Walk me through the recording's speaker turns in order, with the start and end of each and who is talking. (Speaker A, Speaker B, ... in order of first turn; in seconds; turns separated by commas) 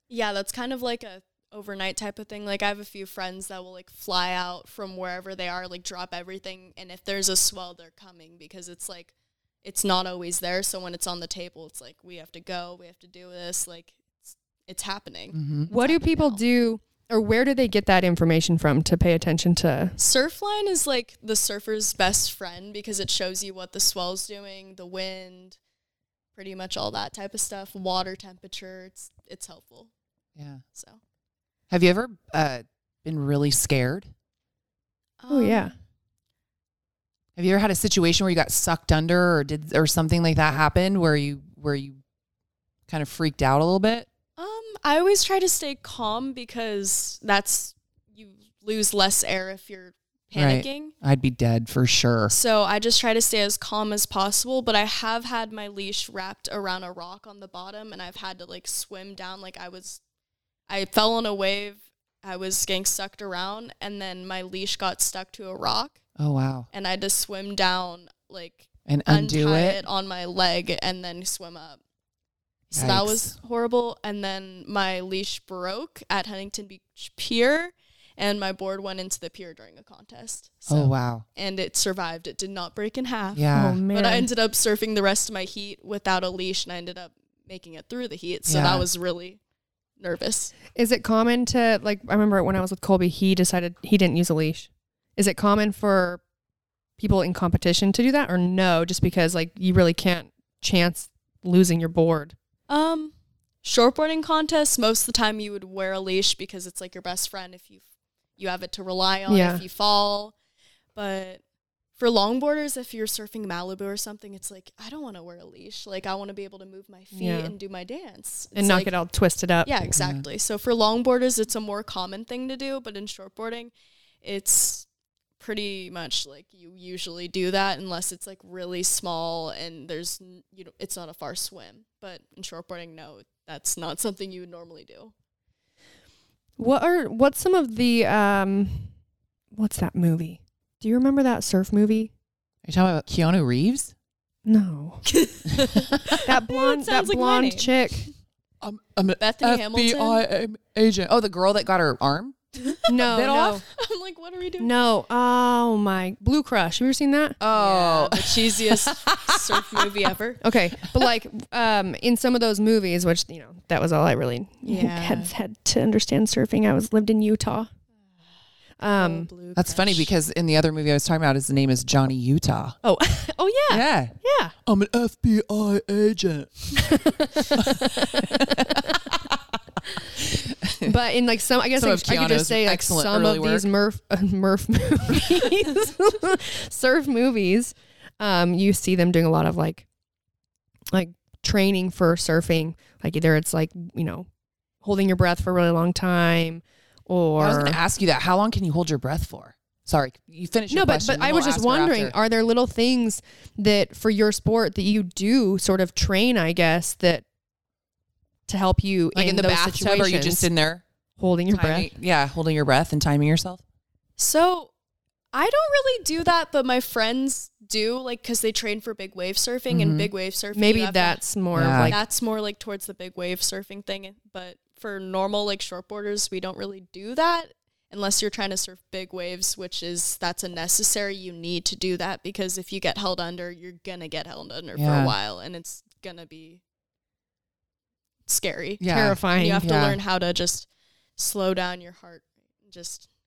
Speaker A: 0.1-16.4, Speaker B: 15.3-15.7, Speaker C: 15.7-20.0, Speaker A: 20.0-25.6, Speaker A: 26.4-29.9, Speaker B: 30.4-30.6, Speaker B: 31.7-34.1, Speaker A: 35.2-35.7, Speaker C: 35.3-35.7, Speaker B: 37.4-42.0, Speaker B: 42.9-44.1, Speaker A: 44.4-51.0, Speaker B: 50.4-52.3, Speaker A: 52.3-60.0, Speaker A: 60.7-66.0, Speaker B: 66.2-66.7, Speaker A: 66.7-71.8, Speaker B: 68.9-69.8, Speaker B: 72.7-73.4, Speaker A: 72.7-89.4, Speaker B: 80.7-81.2, Speaker B: 83.3-83.8, Speaker C: 83.5-84.3, Speaker B: 88.5-88.9, Speaker A: 90.0-90.6, Speaker C: 90.8-96.2, Speaker C: 97.0-102.3, Speaker A: 102.7-107.8, Speaker A: 108.4-110.4, Speaker C: 109.3-109.6, Speaker A: 111.0-111.4, Speaker A: 112.0-118.9, Speaker C: 117.1-117.5, Speaker C: 118.5-119.7, Speaker A: 119.7-123.7, Speaker B: 120.0-120.2, Speaker A: 124.2-124.9, Speaker A: 125.4-135.1, Speaker C: 136.6-138.9, Speaker C: 139.5-142.1, Speaker B: 142.7-143.9, Speaker C: 144.5-145.1, Speaker A: 145.1-148.1, Speaker C: 146.2-148.1, Speaker B: 148.6-152.4, Speaker A: 149.2-150.2, Speaker A: 152.6-153.1, Speaker C: 152.9-153.6, Speaker B: 153.1-153.6, Speaker A: 153.6-154.7, Speaker C: 154.6-157.4, Speaker B: 157.4-159.9, Speaker A: 157.5-160.4, Speaker C: 160.4-167.7, Speaker A: 164.7-165.3, Speaker C: 168.8-169.3, Speaker A: 168.9-170.1, Speaker B: 169.6-172.8, Speaker C: 172.8-174.5, Speaker B: 173.7-174.1, Speaker B: 174.7-177.0, Speaker C: 176.9-178.5, Speaker B: 177.6-179.4, Speaker B: 180.1-180.9, Speaker C: 180.8-189.9, Speaker B: 181.8-183.7, Speaker C: 190.9-194.3, Speaker C: 194.8-197.8, Speaker B: 197.4-202.2, Speaker C: 200.7-207.2, Speaker C: 208.5-210.5, Speaker B: 209.1-210.8, Speaker C: 211.2-211.9, Speaker B: 211.5-213.6, Speaker A: 214.2-214.7, Speaker A: 215.3-221.2, Speaker B: 219.7-220.1, Speaker C: 220.6-222.0, Speaker B: 221.5-222.0, Speaker A: 221.9-236.6, Speaker B: 234.8-235.2, Speaker A: 238.3-243.1, Speaker B: 238.8-240.0, Speaker C: 238.8-239.7